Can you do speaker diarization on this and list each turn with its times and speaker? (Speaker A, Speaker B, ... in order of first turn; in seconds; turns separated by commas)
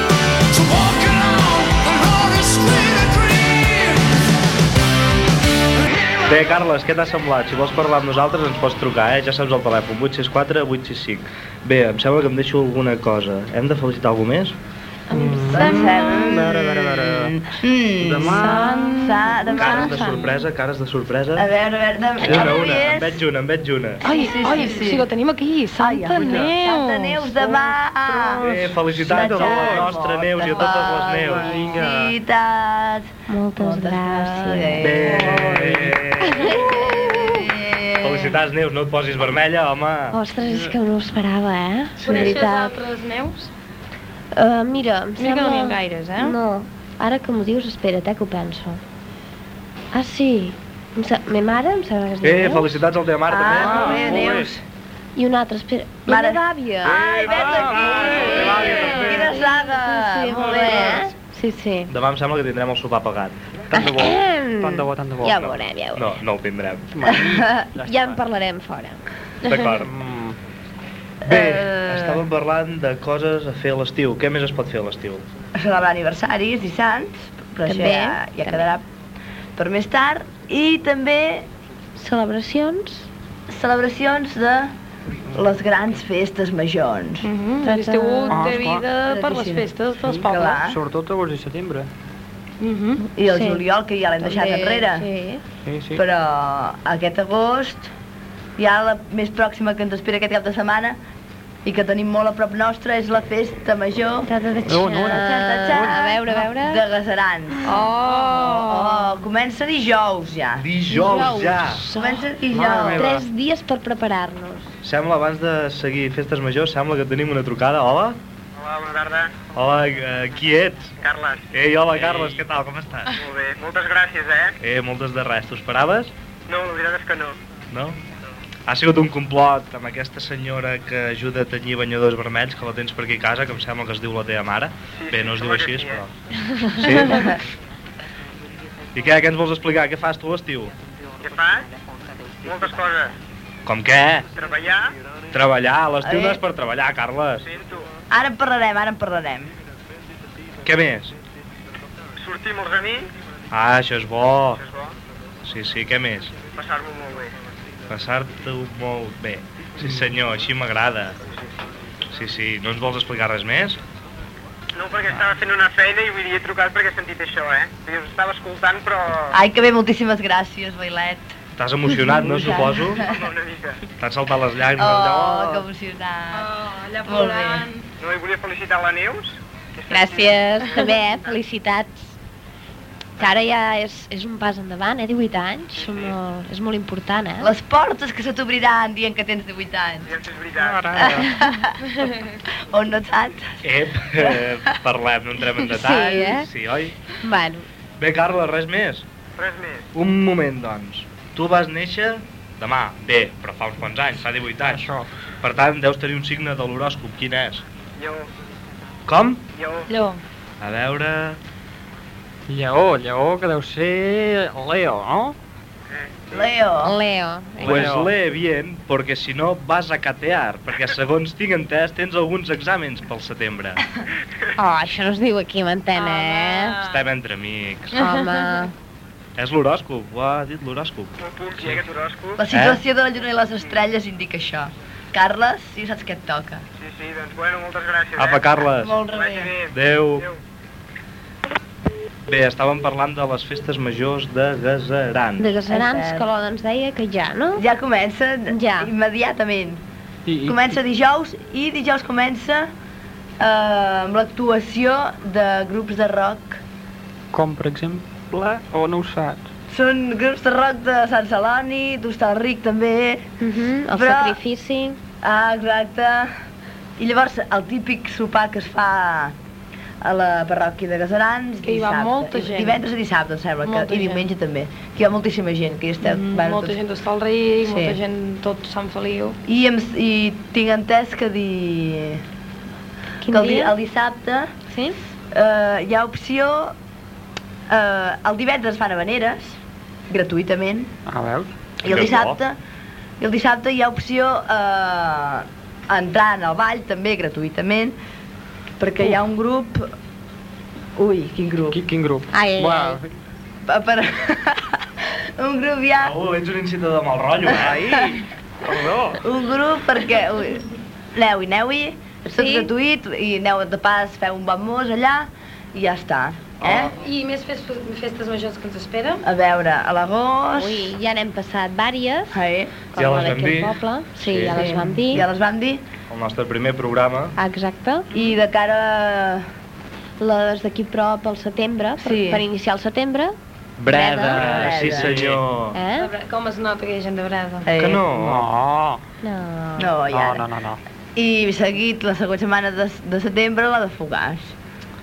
Speaker A: 0.5-4.2, Speaker A: 5.8-6.3, Speaker B: 6.3-14.6, Speaker C: 15.1-17.4, Speaker D: 15.1-16.1, Speaker E: 15.5-20.1, Speaker C: 18.0-18.9, Speaker D: 18.3-20.4, Speaker B: 19.6-21.5, Speaker E: 21.4-23.2, Speaker B: 22.2-24.1, Speaker D: 24.0-27.6, Speaker E: 24.0-25.1, Speaker E: 25.8-35.6, Speaker C: 28.2-29.9, Speaker B: 28.4-31.6, Speaker C: 30.8-32.1, Speaker F: 33.3-35.2, Speaker B: 34.8-36.6, Speaker C: 35.0-36.0, Speaker F: 36.2-37.3, Speaker E: 36.5-38.4, Speaker B: 38.0-40.2, Speaker F: 40.1-42.8, Speaker C: 40.4-40.7, Speaker D: 42.0-43.5, Speaker F: 44.3-48.8, Speaker D: 45.2-46.4, Speaker F: 49.9-52.8, Speaker B: 52.2-54.0, Speaker E: 53.3-54.6, Speaker C: 53.5-54.5, Speaker F: 55.1-57.1, Speaker E: 56.1-61.1, Speaker B: 56.9-59.3, Speaker C: 57.1-59.2, Speaker F: 58.0-61.9, Speaker C: 60.6-61.0, Speaker B: 61.9-63.3, Speaker C: 63.7-65.4, Speaker F: 63.7-66.1, Speaker B: 65.4-67.0, Speaker C: 66.9-68.2, Speaker E: 67.3-67.6, Speaker F: 67.8-69.6, Speaker B: 69.4-69.9, Speaker C: 69.8-70.4, Speaker B: 71.2-75.2, Speaker E: 71.2-72.2, Speaker E: 75.5-78.8, Speaker F: 77.7-78.7, Speaker E: 79.6-81.5, Speaker F: 82.0-83.1, Speaker E: 83.5-84.7, Speaker E: 85.3-87.3, Speaker D: 87.2-90.6, Speaker F: 87.6-88.5, Speaker C: 88.3-88.9, Speaker E: 89.0-90.8, Speaker C: 90.0-91.9, Speaker D: 92.6-93.0, Speaker E: 93.1-95.1, Speaker F: 93.2-93.6, Speaker F: 94.2-95.4, Speaker C: 95.6-96.0, Speaker E: 95.9-97.9, Speaker E: 98.6-101.0, Speaker E: 101.6-104.3, Speaker F: 104.2-106.8, Speaker C: 104.6-106.0, Speaker E: 105.1-107.7, Speaker F: 107.6-108.4, Speaker D: 107.6-109.2, Speaker E: 108.3-110.7, Speaker B: 110.6-111.9, Speaker F: 110.9-112.2, Speaker E: 111.9-113.1, Speaker C: 112.5-113.2, Speaker F: 112.8-114.7, Speaker B: 114.8-118.2, Speaker G: 118.5-119.5, Speaker B: 119.5-120.9, Speaker G: 121.0-121.5, Speaker B: 121.5-123.2, Speaker C: 122.0-122.4, Speaker G: 123.1-124.5, Speaker B: 124.6-126.1, Speaker G: 126.5-127.4, Speaker B: 127.7-128.0, Speaker B: 128.7-136.1, Speaker G: 135.0-136.0, Speaker B: 136.7-137.4, Speaker E: 137.1-137.4, Speaker B: 138.9-140.7, Speaker G: 141.2-141.7, Speaker G: 142.4-143.1, Speaker B: 143.6-144.3, Speaker G: 144.3-144.9, Speaker B: 145.3-147.5, Speaker E: 146.0-146.4, Speaker G: 147.4-147.9, Speaker E: 148.1-149.5, Speaker B: 150.6-151.2, Speaker G: 152.2-153.1, Speaker B: 153.5-154.6, Speaker G: 154.6-154.9, Speaker B: 155.4-156.3, Speaker G: 156.5-157.3, Speaker B: 157.9-161.2, Speaker B: 162.1-163.8, Speaker G: 164.7-169.3, Speaker E: 169.3-171.3, Speaker B: 171.6-173.1, Speaker E: 172.1-173.1, Speaker G: 173.0-173.8, Speaker B: 174.0-175.6, Speaker E: 174.8-176.5, Speaker D: 176.3-177.8, Speaker E: 177.0-177.7, Speaker G: 178.0-181.4, Speaker F: 179.9-182.1, Speaker F: 183.2-187.5, Speaker G: 185.7-186.2, Speaker E: 187.4-190.1, Speaker G: 190.1-190.9, Speaker C: 190.6-191.3, Speaker E: 190.9-191.9, Speaker E: 192.7-193.5, Speaker B: 193.6-196.9, Speaker F: 195.6-196.5, Speaker F: 197.2-197.7, Speaker B: 198.0-199.1, Speaker G: 199.4-199.9, Speaker B: 199.9-204.9, Speaker C: 204.7-205.1, Speaker B: 205.4-207.6, Speaker G: 208.0-208.3, Speaker B: 209.1-209.4, Speaker G: 209.6-209.9, Speaker D: 209.9-210.2, Speaker B: 210.6-211.4, Speaker C: 212.5-215.4, Speaker E: 216.3-217.0, Speaker F: 216.8-217.9, Speaker C: 217.6-218.1, Speaker B: 217.6-223.8, Speaker F: 224.6-226.8, Speaker D: 225.9-227.0, Speaker B: 226.8-227.9, Speaker F: 227.9-228.7, Speaker D: 228.0-228.6, Speaker B: 229.4-231.8, Speaker G: 231.2-232.4, Speaker E: 232.4-236.6, Speaker B: 232.5-232.8, Speaker G: 236.8-240.4, Speaker B: 238.2-239.0, Speaker E: 238.8-239.6, Speaker B: 239.7-240.3, Speaker B: 242.3-245.5, Speaker F: 245.4-247.6, Speaker E: 245.7-246.3, Speaker E: 247.6-249.8, Speaker F: 248.5-248.9, Speaker C: 250.3-250.7, Speaker E: 250.4-252.7, Speaker E: 253.4-256.6, Speaker C: 257.3-259.5, Speaker E: 259.7-263.2, Speaker F: 263.4-265.0, Speaker E: 263.9-264.4, Speaker E: 265.2-266.3, Speaker E: 267.0-269.3, Speaker E: 270.0-276.8, Speaker D: 271.6-272.8, Speaker D: 273.6-274.3, Speaker D: 276.0-279.4, Speaker E: 277.6-278.0, Speaker E: 279.4-282.2, Speaker F: 283.2-283.7, Speaker E: 283.3-284.5, Speaker F: 284.7-285.0, Speaker E: 285.3-286.7, Speaker E: 287.7-289.6, Speaker E: 290.1-290.9, Speaker C: 291.1-291.5, Speaker E: 291.8-292.6, Speaker B: 291.8-292.4, Speaker E: 293.2-297.9, Speaker E: 298.8-299.9, Speaker E: 300.9-301.8, Speaker C: 301.7-303.1, Speaker F: 302.3-303.0, Speaker E: 303.6-304.8, Speaker E: 305.4-306.1, Speaker B: 306.0-307.8, Speaker C: 307.6-309.2, Speaker E: 309.2-316.9, Speaker F: 312.3-312.7, Speaker D: 316.6-319.2, Speaker E: 319.2-320.9, Speaker F: 320.6-325.2, Speaker E: 322.3-322.7, Speaker B: 322.9-325.2, Speaker E: 324.4-325.8, Speaker B: 326.1-327.4, Speaker F: 327.4-328.1, Speaker E: 328.1-329.4, Speaker F: 330.2-334.7, Speaker E: 332.0-332.4, Speaker B: 333.8-335.8, Speaker C: 334.4-335.4, Speaker E: 334.4-335.2, Speaker F: 335.7-336.1, Speaker D: 335.9-337.7, Speaker E: 337.6-338.0, Speaker B: 337.8-338.5, Speaker C: 338.1-339.0, Speaker F: 339.2-339.9, Speaker E: 339.8-340.5, Speaker C: 340.1-340.8, Speaker E: 341.1-344.5